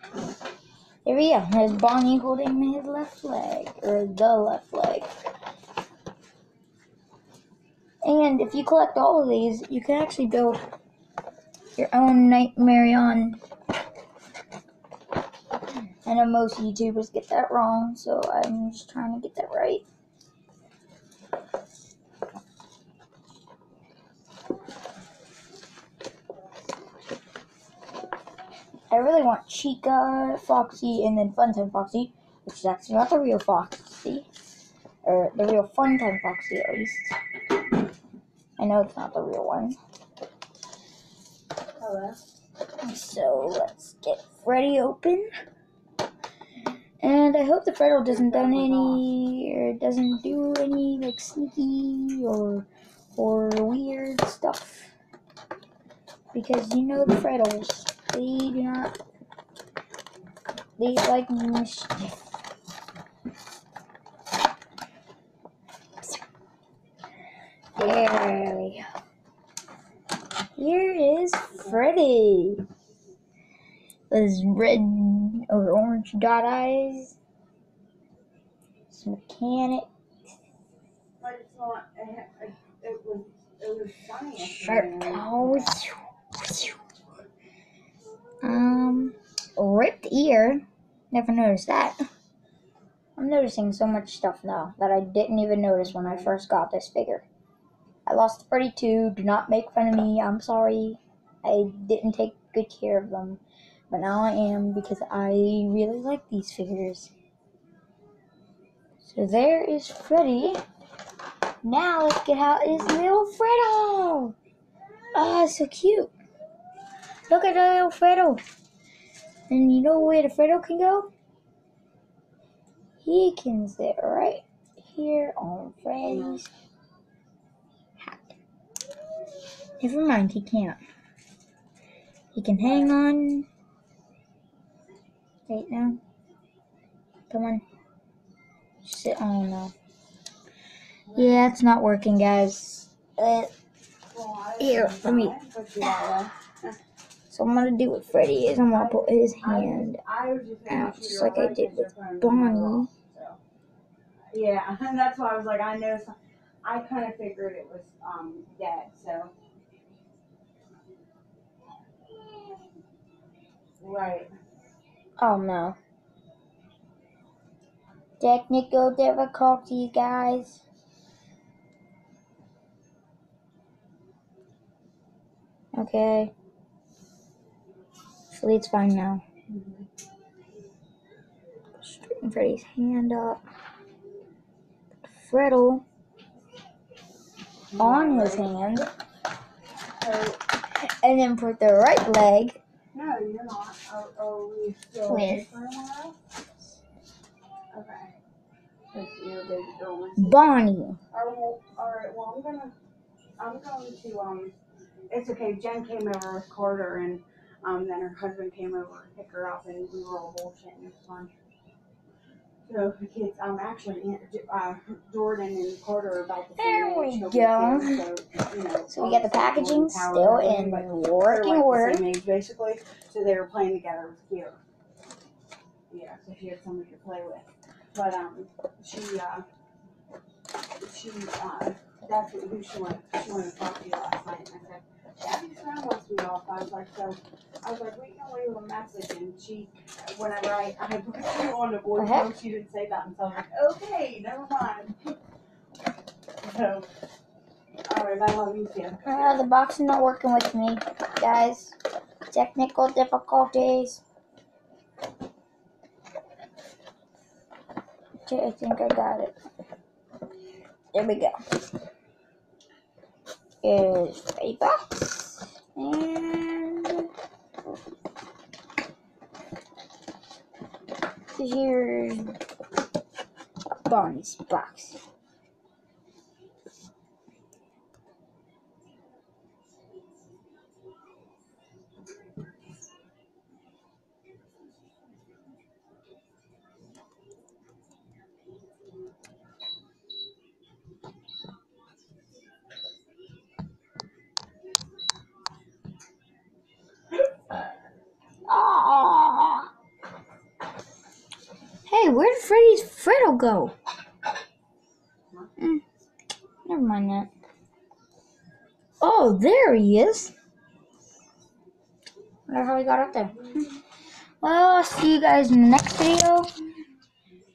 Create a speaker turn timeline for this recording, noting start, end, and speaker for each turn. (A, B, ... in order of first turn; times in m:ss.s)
0:01.0-0:05.1 A
0:08.0-0:10.6 A
0:11.8-0:13.4 A
0:16.0-0:19.8 A
0:28.9-0:34.3 A
0:35.0-0:37.1 A
0:38.6-0:39.8 A
0:41.8-0:42.2 B
0:42.8-0:45.3 A
0:47.0-0:54.9 A
0:48.1-0:49.0 B
0:56.3-0:58.9 A
1:00.8-1:02.2 A
1:07.8-1:08.8 A
1:10.6-1:12.6 A
1:11.5-1:11.8 B
1:14.1-1:17.1 A
1:18.9-1:19.9 A
1:21.2-1:25.8 B
1:24.4-1:26.8 A
1:28.4-1:32.0 A
1:33.2-1:37.2 A
1:35.9-1:36.3 B
1:38.0-1:47.1 A
1:49.0-1:50.6 A
1:51.6-1:54.4 A
1:55.1-1:56.1 A
1:57.3-1:58.4 A
1:59.5-2:01.1 A
2:03.0-2:06.5 A
2:06.0-2:06.4 B
2:08.0-2:08.4 A
2:09.8-2:10.8 A
2:12.3-2:13.5 A
2:12.6-2:13.0 B
2:15.4-2:16.0 A
2:17.3-2:17.6 A
2:18.8-2:19.7 A
2:21.1-2:21.5 B
2:21.1-2:23.5 A
2:24.1-2:26.7 B
2:24.6-2:25.4 A
2:27.3-2:30.0 A
2:28.7-2:33.4 B
2:30.7-2:32.9 A
2:34.3-2:39.3 B
2:43.8-2:44.3 B
2:45.2-2:45.8 A
2:48.2-2:50.6 A
2:55.7-2:56.3 A
2:58.3-2:59.2 A
2:59.5-2:59.9 B
3:01.8-3:03.4 A
3:05.1-3:05.8 A
3:07.7-3:08.5 B
3:07.8-3:08.9 A
3:10.0-3:10.4 B
3:10.8-3:12.6 A
3:12.9-3:16.2 B
3:15.1-3:15.5 A
3:17.7-3:18.1 B
3:18.9-3:22.7 B
3:20.2-3:21.0 A
3:23.4-3:24.5 B
3:25.1-3:31.3 B
3:32.6-3:44.6 B
3:36.6-3:38.0 A
3:38.9-3:42.1 A
3:45.9-3:49.4 B
3:50.8-4:05.1 B
4:02.0-4:02.3 A
4:06.4-4:06.9 B
4:07.9-4:09.4 B
4:09.0-4:11.8 A
4:12.3-4:14.0 A
4:18.2-4:19.3 A
4:20.9-4:21.3 A
4:23.6-4:27.1 A
4:31.3-4:32.3 A
4:33.8-4:35.0 A
4:58.5-4:59.7 A
5:01.9-5:03.7 A
5:05.6-5:05.8 A
5:06.6-5:07.3 A
5:09.0-5:10.3 A
5:12.5-5:13.7 A
5:14.4-5:16.5 A